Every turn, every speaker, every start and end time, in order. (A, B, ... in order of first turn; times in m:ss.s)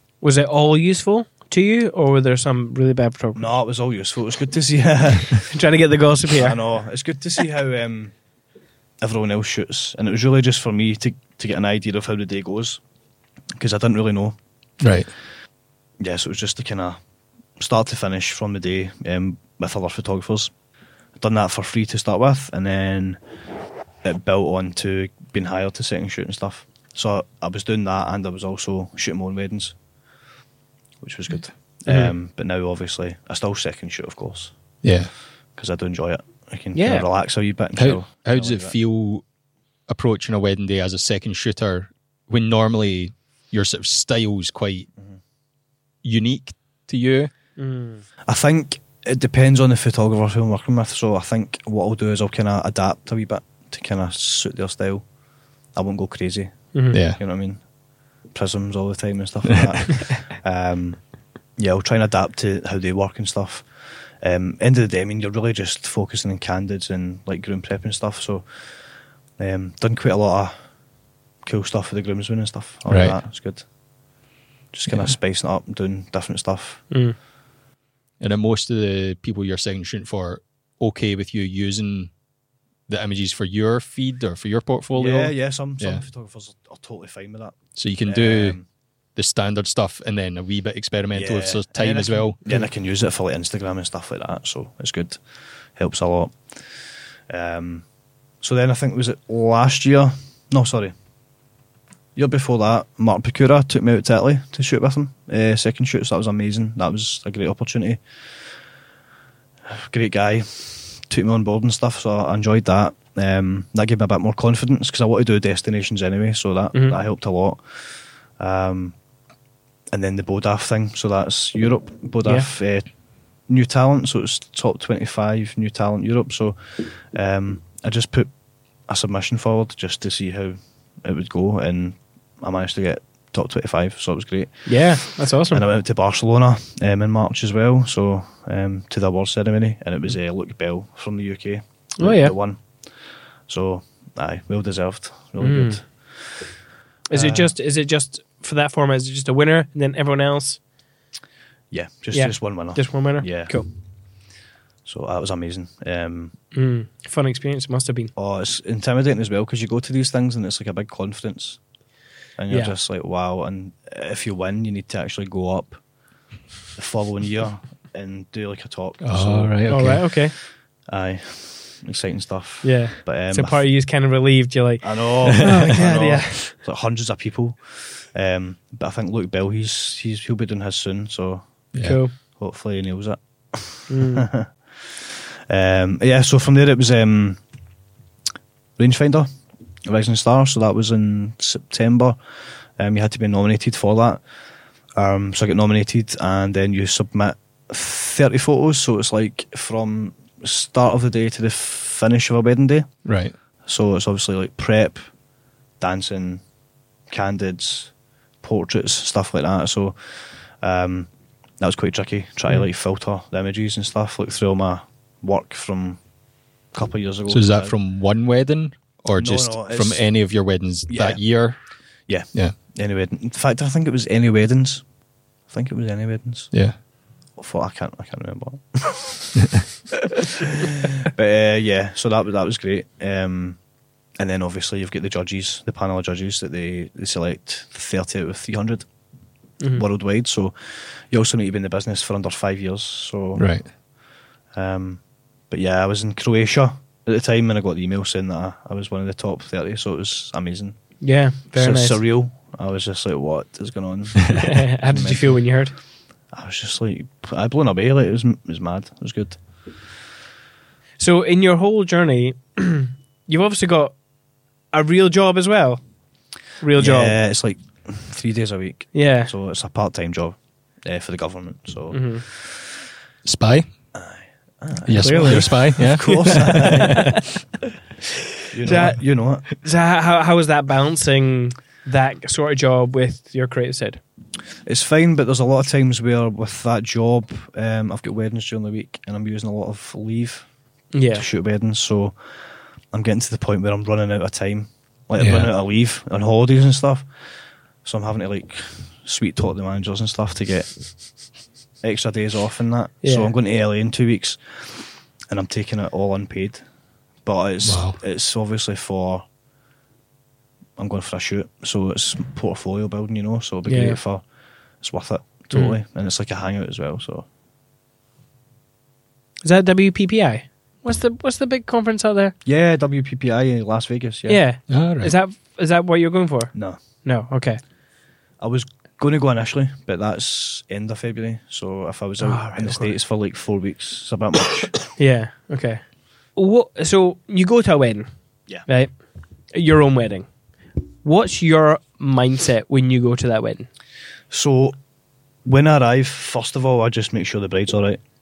0:00.2-0:03.4 A
0:03.4-0:05.5 B
0:05.3-0:06.6 A
0:06.4-0:08.1 B
0:09.0-0:12.8 B
0:13.6-0:14.4 B
0:14.8-0:15.1 C
0:16.0-0:17.0 B
0:17.6-0:20.5 B
0:21.2-0:23.2 B
0:24.0-0:29.8 B
0:31.0-0:34.8 B
0:31.9-0:32.1 A
0:34.8-0:35.1 C
0:35.5-0:38.7 B
0:36.7-0:37.0 A
0:37.8-0:39.2 C
0:39.9-0:44.9 C
0:46.0-0:47.3 C
0:47.6-0:48.0 A
0:48.3-0:55.0 B
0:55.7-0:57.7 B
0:56.7-0:57.0 A
0:56.9-0:57.2 C
0:58.3-1:01.0 B
1:01.6-1:08.4 B
1:09.4-1:10.5 B
1:11.4-1:13.7 B
1:12.9-1:13.2 C
1:14.7-1:16.9 B
1:14.9-1:15.1 C
1:16.9-1:17.2 A
1:18.2-1:22.1 C
1:22.9-1:26.0 C
1:24.9-1:28.6 B
1:27.8-1:28.6 C
1:29.2-1:32.4 C
1:31.1-1:35.2 B
1:35.8-1:36.4 B
1:37.3-1:37.8 B
1:38.4-1:40.9 B
1:42.2-1:48.0 B
1:49.7-1:58.9 B
1:59.9-2:02.9 B
2:03.4-2:08.3 B
2:08.8-2:22.8 B
2:14.7-2:15.6 A
2:22.0-2:22.3 A
2:23.5-2:26.3 B
2:25.4-2:25.8 A
2:27.1-2:30.6 A
2:27.1-2:27.5 B
2:31.7-2:33.6 B
2:32.1-2:33.7 A
2:34.8-2:36.3 B
2:36.5-2:38.1 A
2:38.2-2:41.6 B
2:42.4-2:45.8 B
2:46.7-2:50.1 B
2:49.0-2:50.1 C
2:49.7-2:50.3 A
2:50.9-2:53.6 B
2:52.6-2:56.5 A
2:54.8-3:07.4 B
3:01.7-3:02.0 C
3:01.8-3:02.1 A
3:03.9-3:04.3 A
3:08.8-3:09.3 B
3:09.8-3:12.2 B
3:12.8-3:14.2 B
3:15.0-3:22.9 B
3:23.0-3:23.3 C
3:23.6-3:25.0 B
3:25.8-3:26.4 B
3:27.1-3:36.0 B
3:36.7-3:37.7 B
3:37.3-3:41.6 C
3:39.2-3:40.2 B
3:40.9-3:41.2 B
3:42.0-3:44.9 B
3:45.4-3:46.5 B
3:47.4-3:53.6 B
3:54.2-3:58.9 B
3:59.7-4:03.7 B
4:03.4-4:03.7 C
4:04.5-4:11.0 B
4:11.0-4:12.0 A
4:11.5-4:15.5 B
4:14.4-4:15.7 A
4:16.3-4:19.4 B
4:21.0-4:23.9 A
4:24.7-4:25.8 A
4:26.6-4:27.1 A
4:26.8-4:32.7 B
4:28.9-4:29.3 A
4:31.9-4:32.2 A
4:33.2-4:33.7 C
4:33.9-4:37.2 B
4:34.8-4:37.2 C
4:35.0-4:37.2 A
4:38.5-4:39.5 B
4:38.6-4:44.0 A
4:44.6-4:50.5 B
4:50.9-4:51.2 A
4:51.1-4:52.2 B
4:52.9-4:57.0 B
4:55.2-4:55.5 C
4:57.8-5:01.2 B
5:01.8-5:06.6 B
5:03.0-5:03.3 A
5:07.2-5:09.2 B
5:07.6-5:08.0 C
5:10.8-5:14.2 B
5:13.6-5:14.0 A
5:14.8-5:17.3 B
5:19.4-5:22.3 A
5:22.4-5:24.4 B
5:24.3-5:27.6 A
5:24.7-5:25.1 C
5:28.4-5:34.8 B
5:32.2-5:32.9 A
5:34.9-5:35.8 A
5:36.3-5:39.0 A
5:39.5-5:40.3 A
5:41.0-5:43.7 A
5:44.3-5:44.8 B
5:45.4-5:48.0 B